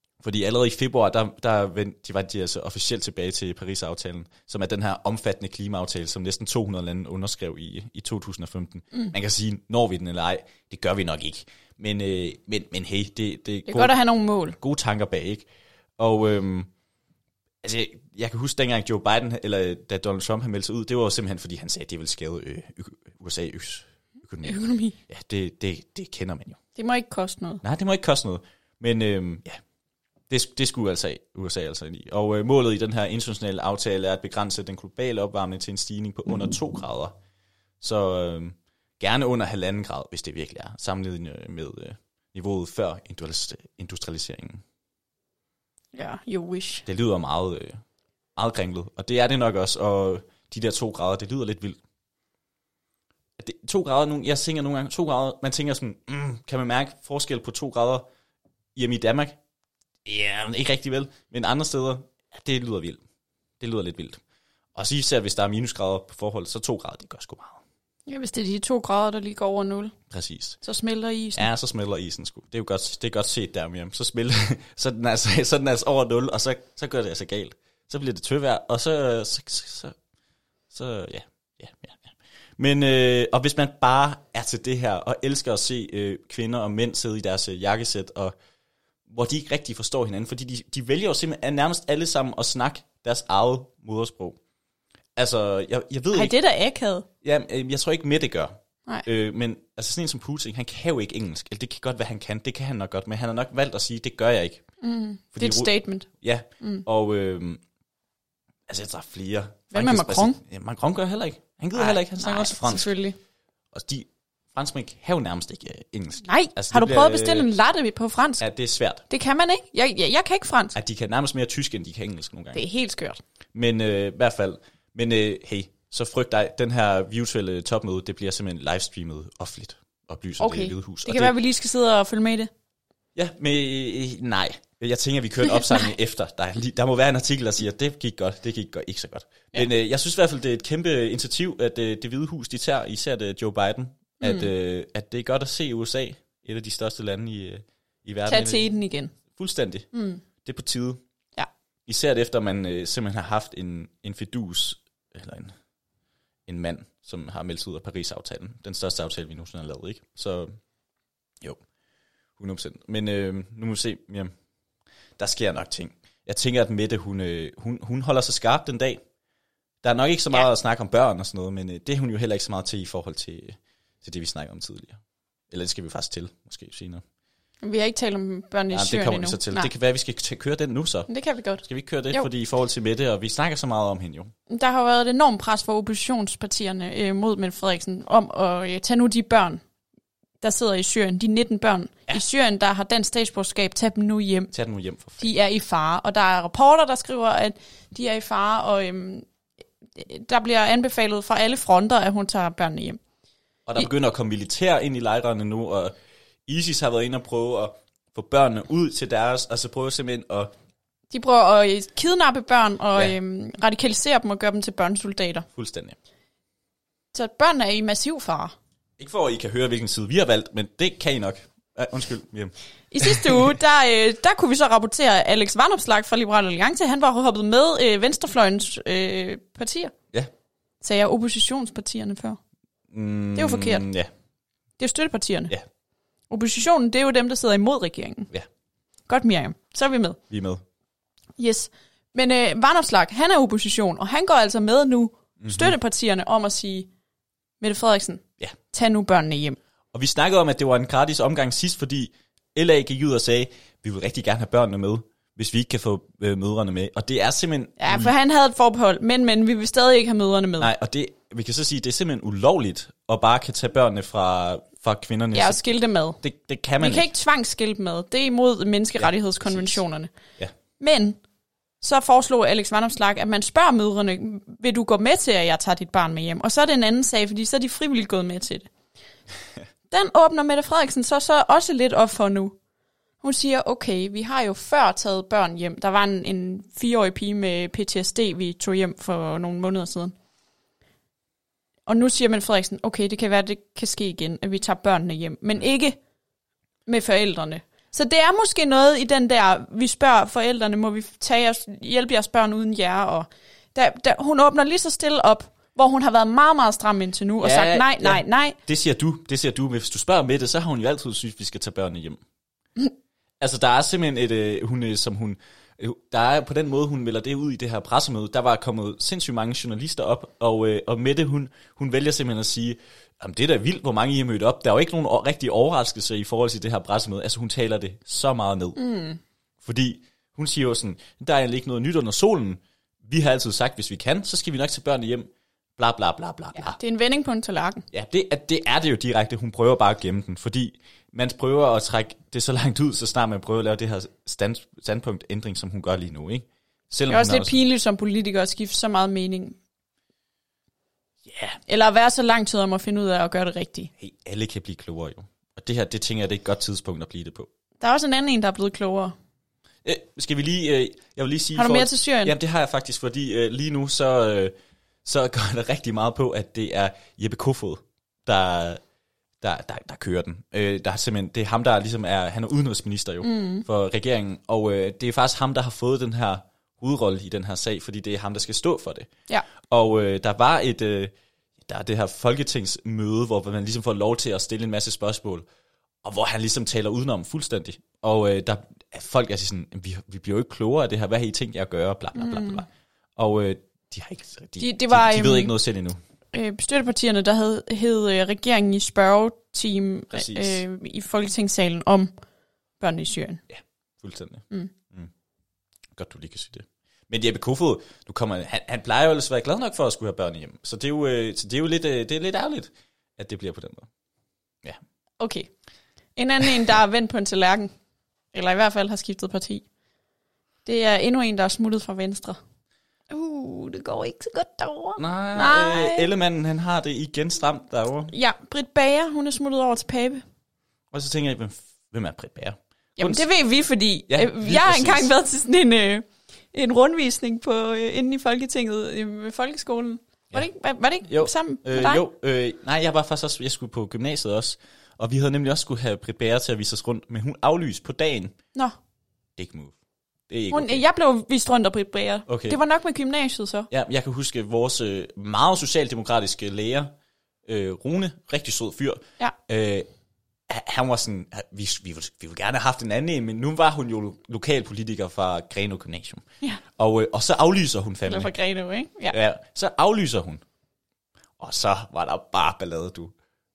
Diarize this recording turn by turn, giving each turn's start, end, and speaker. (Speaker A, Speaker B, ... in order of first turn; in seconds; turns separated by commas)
Speaker A: 0.2-14.0, Speaker B: 13.7-14.6, Speaker A: 14.6-15.5, Speaker A: 16.0-16.7, Speaker A: 17.6-26.6, Speaker B: 24.4-25.0, Speaker B: 26.8-27.6, Speaker A: 27.6-29.6, Speaker A: 30.3-37.1, Speaker A: 37.8-44.6, Speaker B: 45.9-46.9, Speaker A: 46.9-47.8, Speaker A: 48.4-51.8, Speaker A: 53.4-58.1, Speaker A: 58.8-59.4, Speaker A: 60.0-63.0, Speaker A: 63.6-64.2, Speaker A: 64.8-67.6, Speaker B: 68.1-69.9, Speaker A: 70.1-70.6, Speaker B: 70.6-71.5, Speaker A: 71.3-80.0, Speaker A: 80.7-88.3, Speaker A: 89.1-94.4, Speaker A: 95.2-96.3, Speaker B: 96.1-97.1, Speaker A: 97.2-104.6, Speaker B: 104.8-106.1, Speaker A: 105.3-107.6, Speaker A: 108.7-112.9, Speaker B: 109.7-110.4, Speaker B: 111.7-113.2, Speaker A: 113.7-117.5, Speaker B: 116.2-118.4, Speaker A: 118.4-119.0, Speaker B: 119.1-120.8, Speaker A: 120.8-122.6, Speaker B: 122.5-123.2, Speaker A: 123.5-131.3, Speaker B: 130.4-132.5, Speaker A: 133.2-148.7, Speaker B: 144.2-144.5, Speaker B: 148.3-149.1, Speaker A: 149.3-149.9, Speaker B: 149.9-150.2, Speaker A: 150.4-151.0, Speaker A: 151.9-155.5, Speaker A: 156.5-160.6, Speaker A: 162.4-164.3, Speaker A: 165.2-169.0, Speaker A: 169.8-175.0, Speaker A: 175.5-177.0, Speaker B: 177.6-179.7, Speaker A: 178.7-181.1, Speaker B: 181.1-182.3, Speaker A: 181.6-184.3, Speaker B: 184.5-189.6, Speaker B: 190.4-194.5, Speaker A: 194.5-195.3, Speaker B: 195.2-199.3, Speaker B: 200.0-203.0, Speaker A: 203.7-205.9, Speaker A: 206.5-210.5, Speaker B: 211.1-215.4, Speaker A: 215.6-216.0, Speaker B: 217.1-218.5, Speaker A: 219.0-223.6, Speaker B: 222.9-229.9, Speaker B: 230.8-232.4, Speaker A: 232.9-234.1, Speaker B: 233.4-233.8, Speaker B: 234.8-235.5, Speaker B: 236.3-238.3, Speaker B: 239.1-240.2, Speaker A: 240.3-240.6, Speaker B: 241.4-246.9, Speaker A: 245.4-245.8, Speaker B: 247.6-249.6, Speaker A: 249.9-258.1, Speaker B: 257.8-260.7, Speaker A: 260.6-265.6, Speaker B: 265.3-266.2, Speaker A: 266.2-267.1, Speaker B: 266.8-270.1, Speaker A: 269.0-269.8, Speaker B: 270.8-271.2, Speaker B: 271.8-278.7, Speaker B: 279.9-282.6, Speaker B: 283.2-290.2, Speaker B: 291.9-296.0, Speaker B: 296.9-308.6, Speaker A: 307.4-312.2, Speaker A: 313.4-328.8, Speaker B: 328.8-329.2, Speaker A: 329.6-336.8, Speaker B: 336.6-337.9, Speaker A: 337.9-347.6, Speaker B: 347.1-349.6, Speaker A: 351.2-351.6, Speaker B: 351.7-353.9, Speaker A: 354.0-357.5, Speaker B: 357.8-359.1, Speaker A: 359.8-364.5, Speaker B: 361.6-362.3, Speaker A: 365.1-368.8, Speaker A: 369.4-379.1, Speaker B: 373.2-373.7, Speaker A: 379.6-381.1, Speaker A: 381.6-385.4, Speaker A: 386.0-392.7, Speaker B: 392.2-392.6, Speaker A: 393.2-396.0, Speaker B: 394.6-395.5, Speaker B: 396.3-402.1, Speaker A: 400.1-400.6, Speaker B: 402.8-403.4, Speaker A: 403.5-405.1, Speaker A: 405.9-413.9, Speaker B: 415.2-415.5, Speaker B: 416.2-417.7, Speaker B: 418.3-419.6, Speaker B: 420.6-422.4, Speaker B: 423.1-426.1, Speaker A: 425.0-428.1, Speaker B: 428.1-430.2, Speaker A: 430.9-433.3, Speaker B: 433.0-442.0, Speaker A: 434.1-435.1, Speaker A: 441.1-448.3, Speaker A: 449.4-449.8, Speaker A: 450.3-450.8, Speaker B: 450.5-453.7, Speaker A: 452.3-452.6, Speaker A: 453.7-456.9, Speaker A: 457.5-459.9, Speaker A: 460.5-466.2, Speaker A: 466.8-468.3, Speaker B: 468.1-469.2, Speaker A: 469.1-470.4, Speaker A: 471.4-473.1